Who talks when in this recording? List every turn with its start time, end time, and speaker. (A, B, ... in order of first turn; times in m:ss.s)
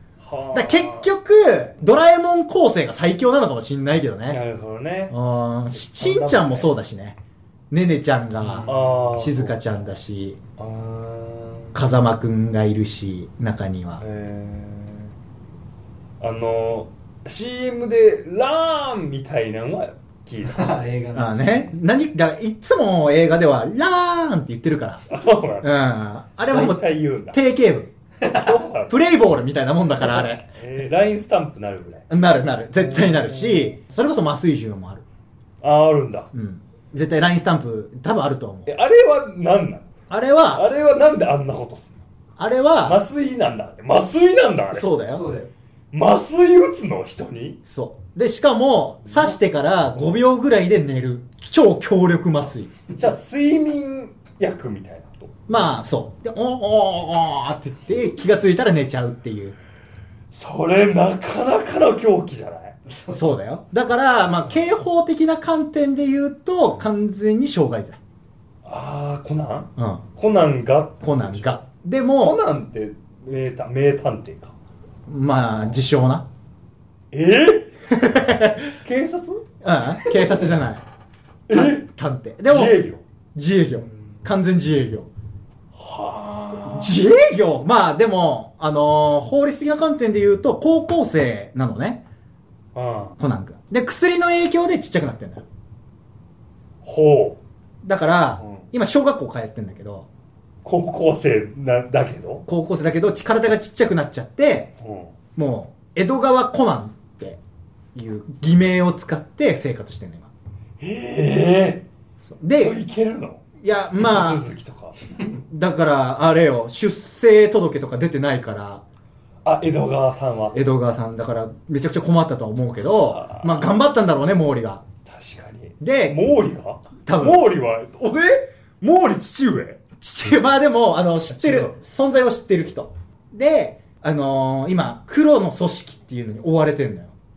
0:00.2-0:01.1 A
0:00.5-0:04.4 B
0:04.3-0:05.1 A
0:05.1-0:07.2 B
0:05.7-0:06.7 A
0:07.7-0:10.4 B
0:08.4-0:09.6 A
0:10.6-0:11.7 A
0:11.7-0:14.0 B
0:14.0-0:15.1 A
0:16.2-0:20.7 A
0:20.4-0:21.7 C
0:21.1-0:25.0 B
0:25.1-0:25.8 A
0:25.6-0:27.9 B
0:26.5-0:27.4 A
0:28.2-0:29.0 A
0:28.9-0:30.5 B
0:30.1-0:32.1 A
0:32.1-0:35.0 B
0:32.8-0:33.7 A
0:35.6-0:36.3 A
0:36.3-0:38.7 B
0:38.7-0:39.9 A
0:40.1-0:40.6 B
0:40.5-0:42.0 A
0:42.4-0:43.0 B
0:42.8-0:44.9 A
0:44.7-0:45.3 B
0:45.1-0:45.5 C
0:45.9-0:47.6 A
0:47.6-0:52.7 B
0:52.9-0:55.3 A
0:55.5-0:59.6 B
1:00.3-1:02.7 A
1:02.8-1:03.3 C
1:03.1-1:08.0 B
1:08.6-1:11.6 A
1:09.8-1:10.0 B
1:11.0-1:12.4 B
1:12.2-1:14.5 A
1:15.1-1:16.3 B
1:17.1-1:19.4 A
1:17.9-1:18.7 B
1:19.6-1:20.8 B
1:20.0-1:20.4 A
1:21.5-1:21.9 A
1:21.5-1:22.8 B
1:22.5-1:23.0 A
1:23.3-1:25.1 B
1:25.7-1:27.0 A
1:26.6-1:32.0 B
1:32.7-1:33.2 A
1:33.2-1:35.4 B
1:36.8-1:37.4 A
1:37.8-1:40.1 B
1:38.4-1:38.7 A
1:40.6-1:42.4 A
1:42.5-1:44.7 B
1:44.8-1:45.1 A
1:45.4-1:47.4 B
1:47.9-1:50.3 B
1:50.8-1:51.9 A
1:52.2-1:52.8 B
1:52.6-1:53.4 A
1:53.6-1:54.4 B
1:54.0-1:55.1 A
1:55.3-1:58.8 B
1:59.4-2:00.6 A
2:00.5-2:04.8 B
2:02.8-2:03.8 A
2:05.0-2:09.8 A
2:05.8-2:06.2 B
2:07.0-2:07.4 B
2:10.0-2:17.1 B
2:11.3-2:11.7 A